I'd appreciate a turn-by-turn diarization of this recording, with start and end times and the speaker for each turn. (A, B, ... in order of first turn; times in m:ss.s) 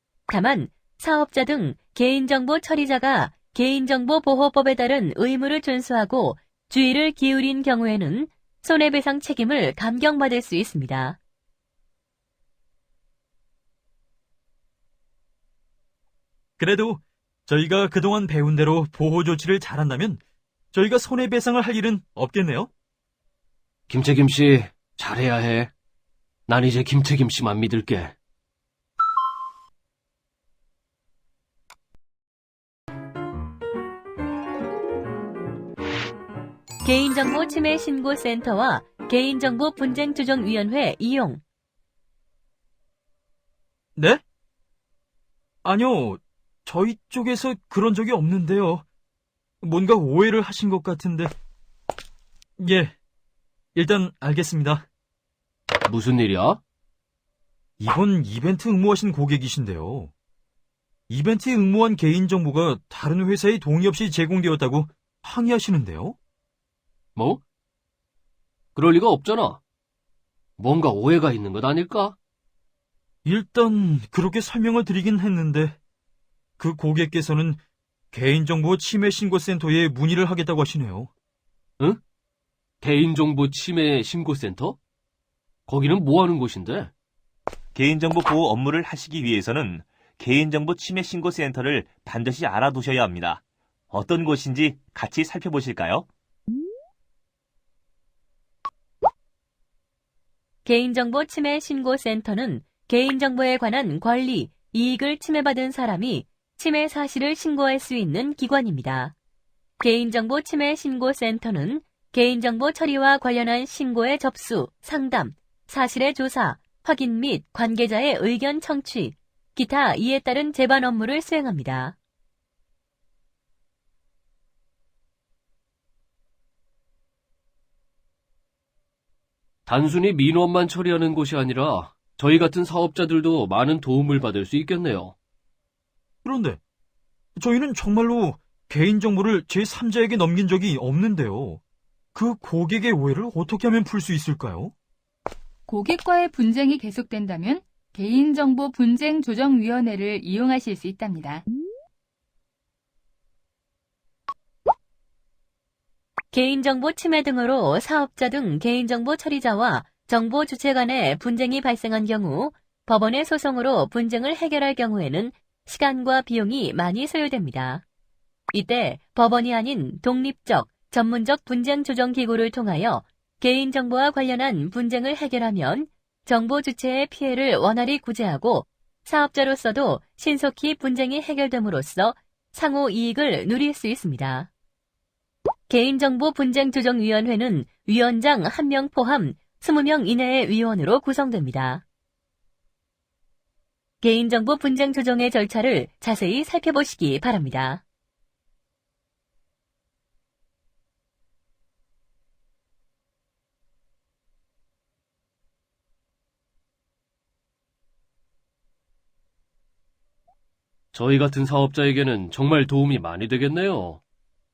0:00.3-0:11.2 A
0:16.6-0:20.2 B
0:20.7-0:22.7 B
0:23.9-0:25.7 C
0:26.5-0:28.2 C
0:36.8-0:41.4 A
0:44.0-0:44.2 B
0:45.6-0:48.8 B
0:49.6-0:51.3 B
0:52.6-0:53.0 B
0:53.8-0:54.9 B
0:55.9-0:56.6 C
0:57.8-1:00.1 B
1:01.1-1:06.2 B
1:07.2-1:07.4 C
1:08.8-1:09.6 C
1:10.6-1:12.2 C
1:13.2-1:15.8 B
1:16.6-1:17.6 B
1:18.1-1:21.1 B
1:22.8-1:24.8 C
1:25.7-1:26.9 C
1:27.8-1:36.1 D
1:40.6-1:49.2 A
1:49.8-2:02.0 A
2:09.7-2:15.2 C
2:16.2-2:16.6 B
2:17.4-2:21.6 B
2:22.2-2:24.7 B
2:25.7-2:31.4 E
2:36.3-2:47.8 A
2:48.5-3:04.5 A
3:05.7-3:11.8 A
3:14.0-3:17.8 A
3:30.9-3:34.0 C